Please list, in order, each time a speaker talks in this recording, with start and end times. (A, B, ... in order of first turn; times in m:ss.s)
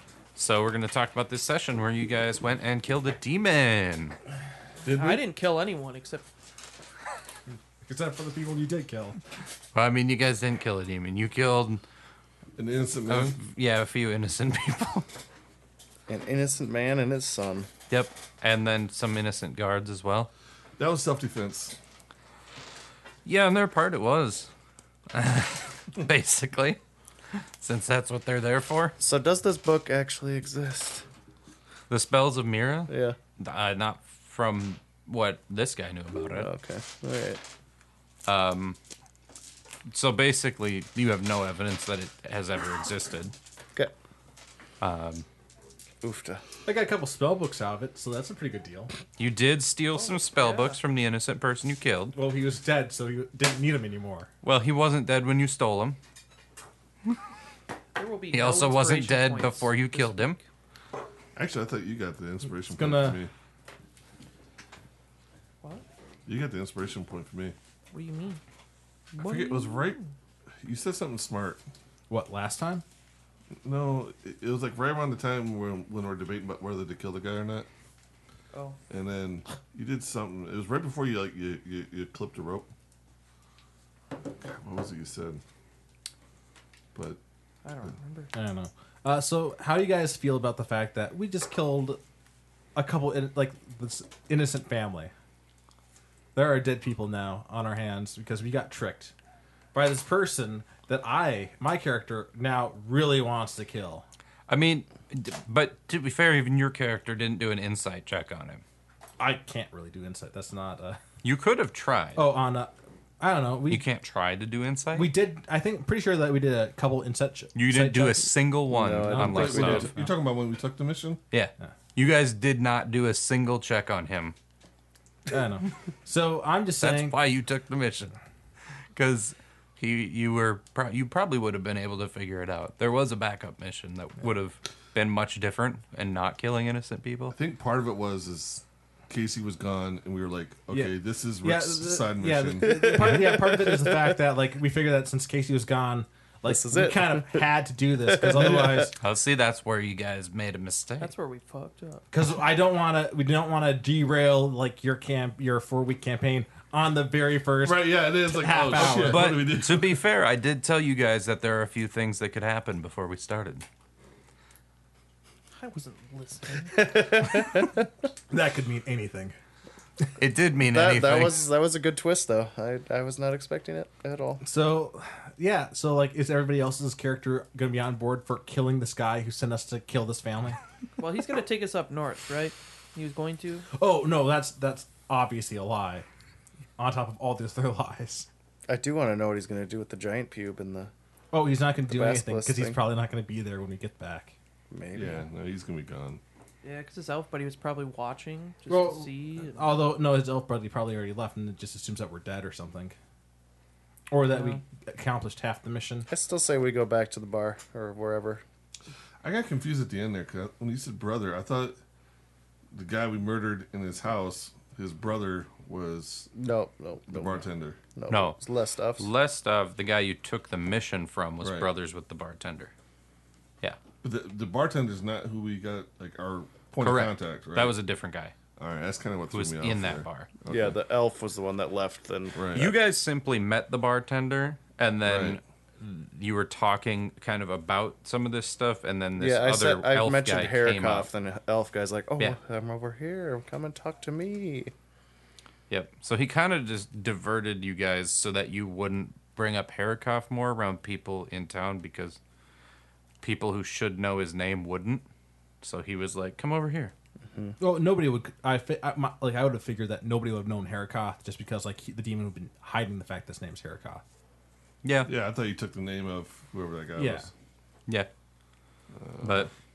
0:00.3-0:04.2 A
0:04.8-0:05.2 B
0:04.9-0:06.3 C
0:07.8-0:09.2 D
0:09.7-0:11.8 A
0:12.6-0:13.4 B
0:13.1-0:15.1 A
0:16.1-0:17.7 E
0:17.9-0:20.3 A
0:20.8-0:21.8 B
0:23.2-0:24.5 A
0:25.1-0:26.8 A
0:27.3-0:28.9 A
0:29.0-0:31.0 E
0:31.9-0:36.5 A
0:32.9-0:33.2 E
0:36.3-0:37.4 E
0:38.2-0:38.8 A
0:39.9-0:43.3 A
0:44.8-0:45.2 A
0:46.0-0:46.4 E
0:46.6-0:48.9 D
0:49.2-0:52.2 A
0:50.0-0:50.8 C
0:52.1-0:54.3 D
0:54.4-0:56.0 A
0:57.9-1:00.4 C
0:58.3-1:00.4 A
1:01.4-1:03.3 B
1:02.5-1:03.2 D
1:06.2-1:07.5 B
1:07.9-1:08.4 C
1:09.1-1:10.0 B
1:09.2-1:10.1 C
1:10.6-1:11.6 B
1:12.1-1:12.8 D
1:13.6-1:17.7 B
1:18.5-1:18.8 C
1:18.9-1:22.7 B
1:24.5-1:25.4 B
1:26.9-1:27.2 B
1:27.6-1:28.3 C
1:28.3-1:32.0 D
1:32.7-1:35.1 D
1:36.3-1:39.1 D
1:39.7-1:44.0 D
1:44.5-1:48.6 A
1:49.2-1:51.0 D
1:51.2-1:52.2 A
1:52.2-1:53.8 D
1:53.7-1:55.1 A
1:54.9-1:58.3 D
1:57.5-1:59.9 A
1:58.7-1:59.8 E
1:58.9-2:00.1 D
1:59.1-2:01.2 B
2:01.3-2:04.3 A
2:05.3-2:07.2 D
2:06.8-2:08.2 A
2:08.9-2:17.3 A
2:17.3-2:22.8 B
2:20.7-2:28.9 D
2:22.5-2:24.1 E
2:26.4-2:27.4 E
2:28.1-2:28.9 E
2:28.4-2:28.7 B
2:29.0-2:31.1 A
2:31.0-2:32.0 C
2:32.1-2:39.4 D
2:37.6-2:40.0 B
2:38.8-2:43.6 A
2:45.6-2:46.8 C
2:46.7-2:47.9 E
2:48.3-2:49.3 D
2:50.2-2:51.4 A
2:50.7-2:54.4 E
2:54.4-3:00.6 D
3:01.0-3:03.6 C
3:03.7-3:06.0 D
3:06.8-3:08.3 D
3:08.7-3:10.9 E
3:11.3-3:14.3 D
3:11.9-3:12.8 E
3:14.7-3:15.2 E
3:14.9-3:16.2 B
3:16.6-3:19.8 C
3:18.7-3:23.0 D
3:24.1-3:26.1 D
3:24.3-3:24.6 C
3:26.1-3:28.4 E
3:29.2-3:31.8 B
3:32.7-3:36.3 B
3:36.3-3:39.1 E
3:37.1-3:37.8 B
3:38.1-3:38.4 A
3:39.0-3:42.7 A
3:41.4-3:41.7 B
3:44.0-3:47.8 B
3:46.8-3:48.3 A
3:48.6-3:50.8 B
3:49.3-3:50.3 A
3:50.5-3:52.4 E
3:52.3-3:52.8 B
3:52.5-4:01.1 A
3:55.0-3:55.4 B
3:59.2-4:04.7 E
4:05.7-4:12.2 A
4:13.2-4:15.0 A
4:15.6-4:16.9 A
4:17.3-4:17.6 E
4:17.6-4:24.0 D
4:24.8-4:25.1 A
4:25.0-4:27.3 B
4:27.0-4:27.3 D
4:29.0-4:29.5 B
4:29.2-4:29.5 A